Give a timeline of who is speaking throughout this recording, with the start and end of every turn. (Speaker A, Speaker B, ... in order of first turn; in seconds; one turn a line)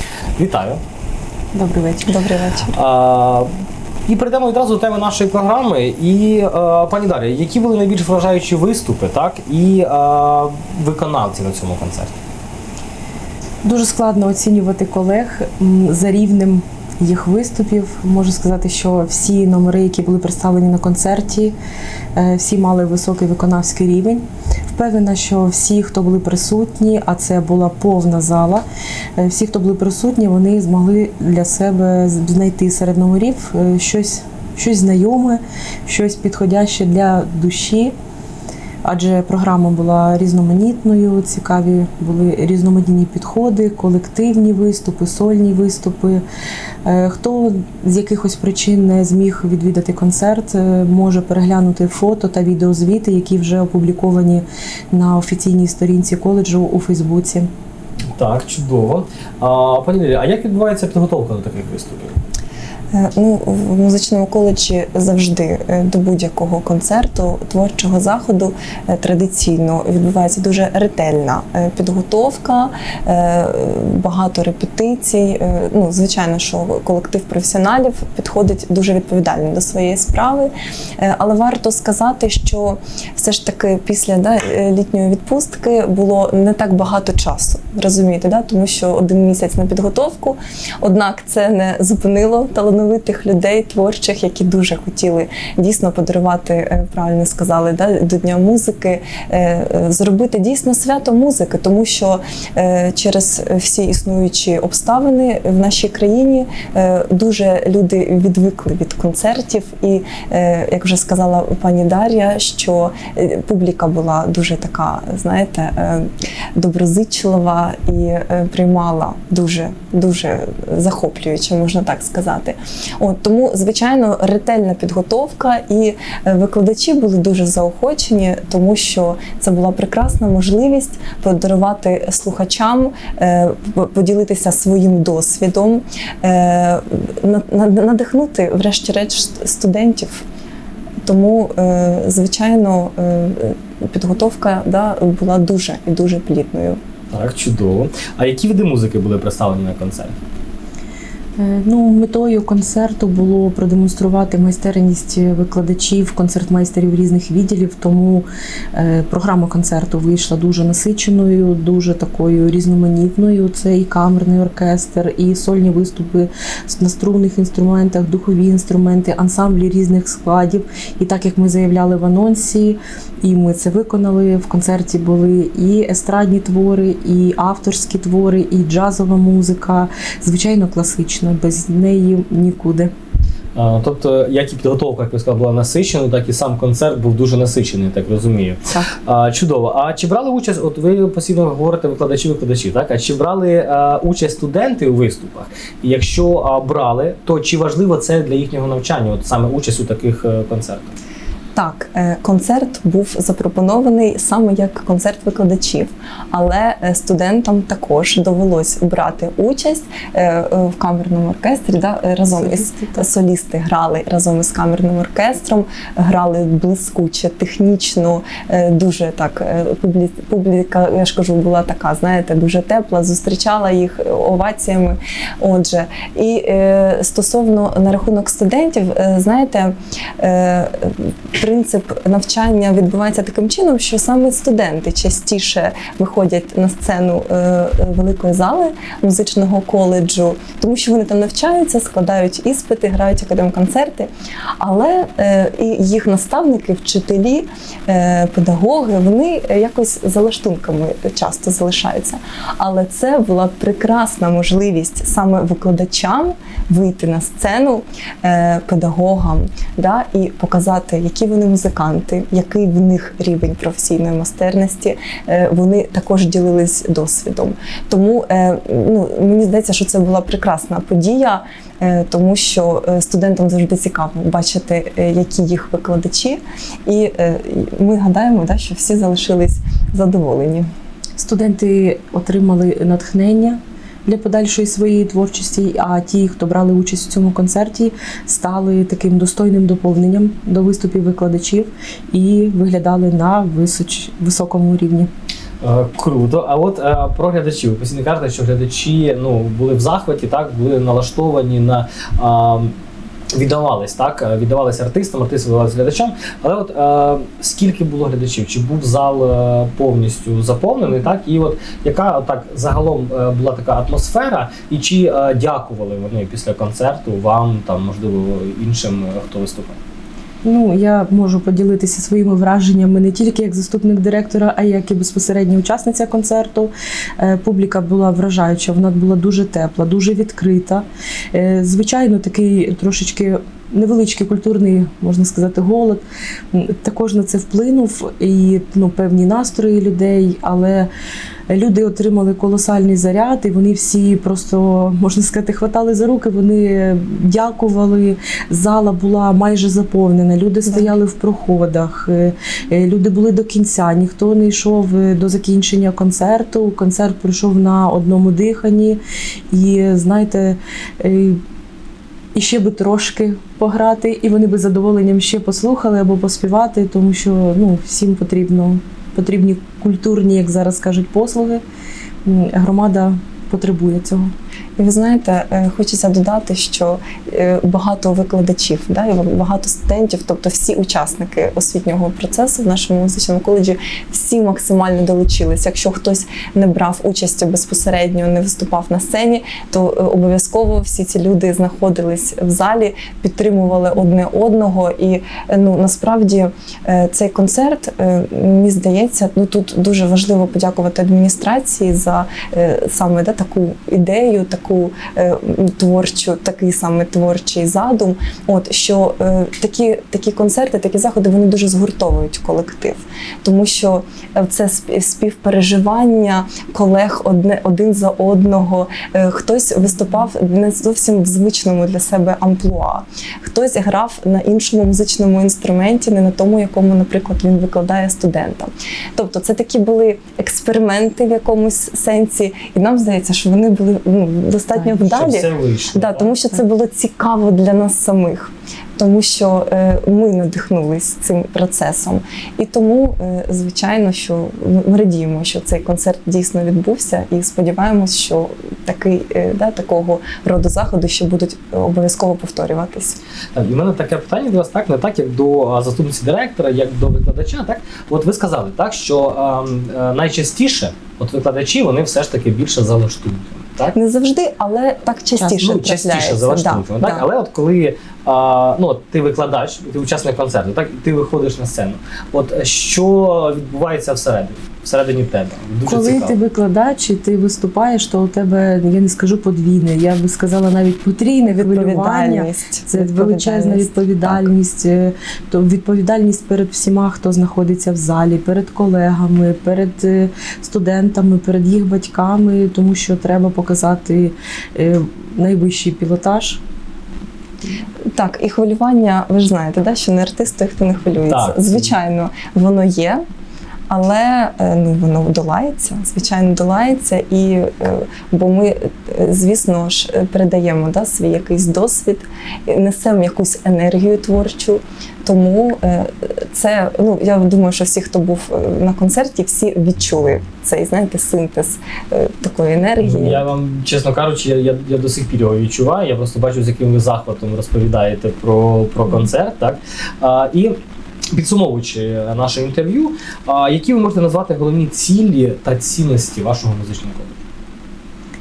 Speaker A: 0.4-0.8
Speaker B: 1.6-2.7
Speaker A: 2.7-3.5
Speaker A: 4.1-12.1
Speaker C: 13.6-21.5
Speaker C: 22.1-28.6
Speaker C: 29.2-37.9
Speaker C: 38.8-46.2
Speaker C: 46.8-57.5
Speaker A: 58.1-62.2
Speaker B: 62.9-140.2
Speaker B: 141.0-146.8
Speaker A: 147.1-150.1
Speaker C: 151.4-182.9
Speaker A: 183.5-200.9
Speaker B: 201.5-280.7
Speaker C: 212.3-213.1
Speaker C: 281.2-295.1
Speaker A: 295.6-302.7
Speaker A: 303.3-319.8
Speaker C: 320.4-340.9
Speaker C: 341.5-359.0
Speaker C: 359.5-361.4
Speaker C: 362.3-371.6
Speaker C: 372.2-374.3
Speaker B: 374.8-453.2
Speaker A: 434.8-436.3
Speaker A: 453.5-463.9
Speaker B: 463.9-467.2
Speaker A: 465.4-476.4
Speaker C: 475.8-496.6
Speaker B: 481.4-484.5
Speaker B: 498.1-503.2
Speaker A: 501.2-501.9
Speaker B: 503.9-523.5
Speaker A: 523.0-530.7
Speaker A: 531.3-537.4